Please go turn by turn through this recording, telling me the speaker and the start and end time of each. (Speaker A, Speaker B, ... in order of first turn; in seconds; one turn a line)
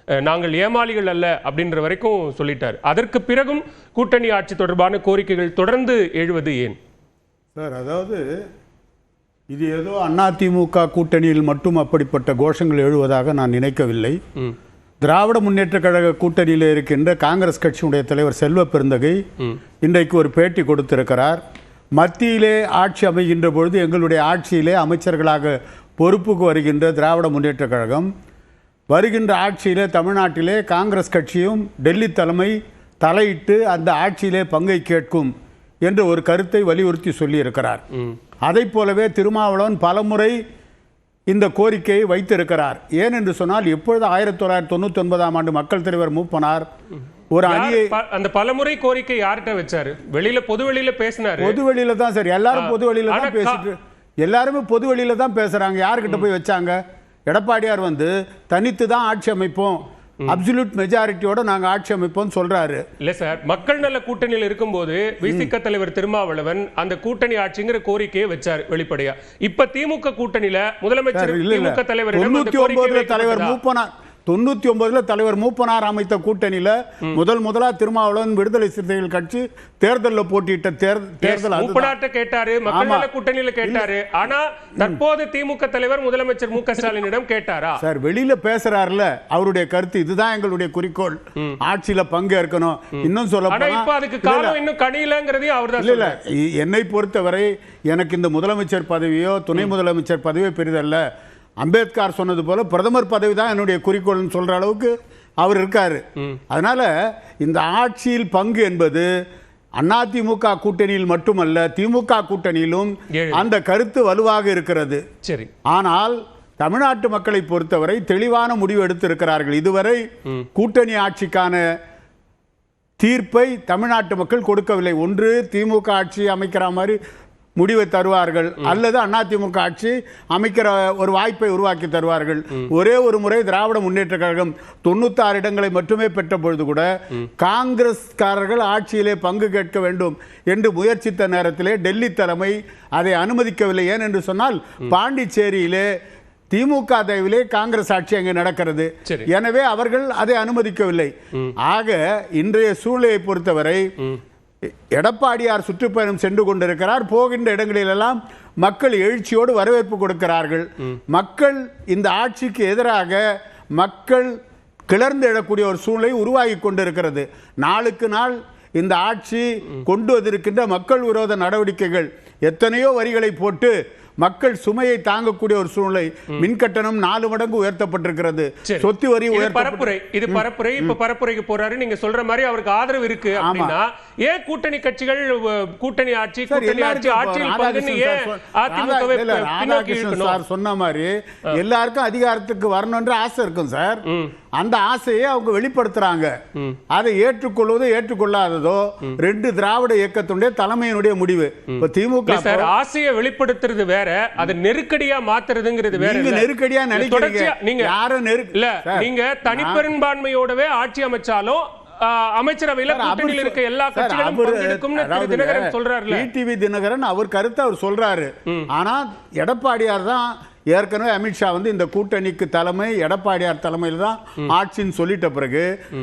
Speaker A: 0.2-6.8
Speaker B: 7.5-8.2
Speaker B: 9.5-14.2
Speaker B: 15.0-19.2
Speaker B: 19.8-21.4
Speaker B: 21.9-28.1
Speaker B: 28.9-35.3
Speaker B: 35.8-37.8
Speaker B: 38.4-40.4
Speaker B: 41.3-46.6
Speaker B: 47.3-47.9
Speaker A: 47.5-51.6
Speaker B: 51.4-56.8
Speaker A: 52.5-53.6
Speaker B: 57.3-62.8
Speaker A: 63.0-73.6
Speaker B: 65.2-65.5
Speaker B: 71.1-81.9
Speaker A: 81.2-87.8
Speaker B: 82.7-83.1
Speaker B: 83.6-83.9
Speaker B: 87.8-94.6
Speaker A: 93.0-96.2
Speaker B: 95.8-101.0
Speaker B: 101.6-106.9
Speaker B: 107.4-109.1
Speaker B: 109.8-115.0
Speaker A: 113.1-113.5
Speaker A: 115.2-115.5
Speaker B: 115.7-120.0
Speaker B: 120.5-121.6
Speaker B: 123.0-127.0
Speaker B: 127.6-145.9
Speaker B: 146.5-153.8
Speaker B: 154.9-163.2
Speaker B: 163.8-164.3
Speaker B: 164.9-180.9
Speaker A: 178.6-190.4
Speaker B: 183.3-183.8
Speaker B: 186.5-194.0
Speaker A: 194.1-194.3
Speaker B: 194.6-196.3
Speaker B: 196.9-202.7
Speaker A: 202.3-207.9
Speaker B: 205.9-209.8
Speaker A: 208.5-216.3
Speaker B: 212.9-225.7